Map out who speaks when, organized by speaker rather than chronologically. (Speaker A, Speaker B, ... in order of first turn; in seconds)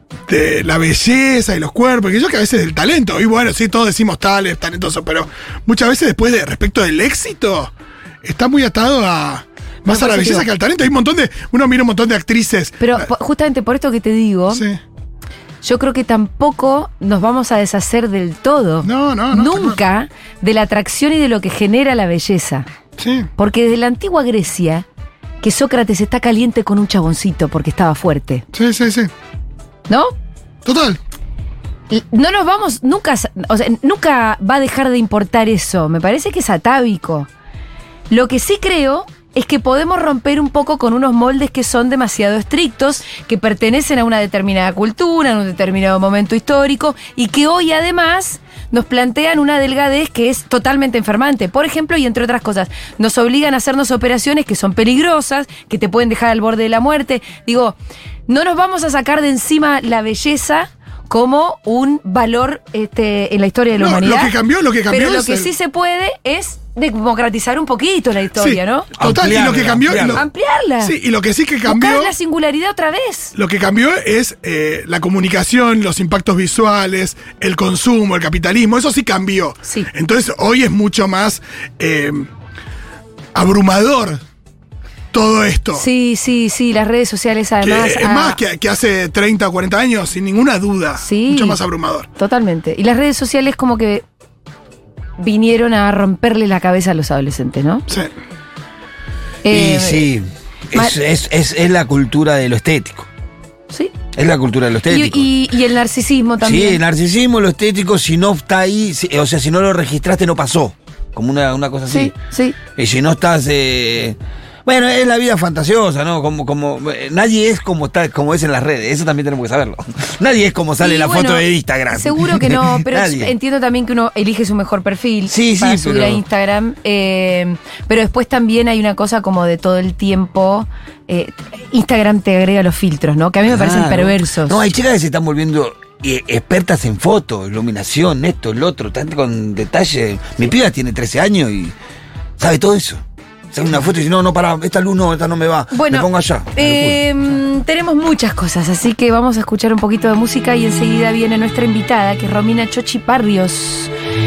Speaker A: 0.3-7.7, 8.2-13.1, 14.5-14.8, 18.8-19.8, 23.0-23.3, 28.5-29.1, 30.6-31.0, 63.7-65.5, 68.4-70.2, 70.8-72.1, 73.3-82.3, 83.3-84.2, 85.1-85.9, 87.6-92.1
Speaker B: 9.9-10.5, 12.8-14.6, 15.6-22.6, 23.4-24.9, 25.4-28.4, 29.9-30.1, 31.9-37.3, 38.1-64.3, 64.9-68.9, 70.1-70.9, 71.7-73.3, 85.7-88.4, 91.0-91.6, 92.1-94.0, 95.2-97.9, 99.4-100.1, 104.9-106.8, 111.9-112.6, 120.8-134.6, 145.7-153.9
Speaker C: 69.0-70.2, 99.5-103.1, 104.1-105.3, 106.4-112.1, 112.8-123.3, 125.3-126.2, 133.4-141.7, 142.4-147.0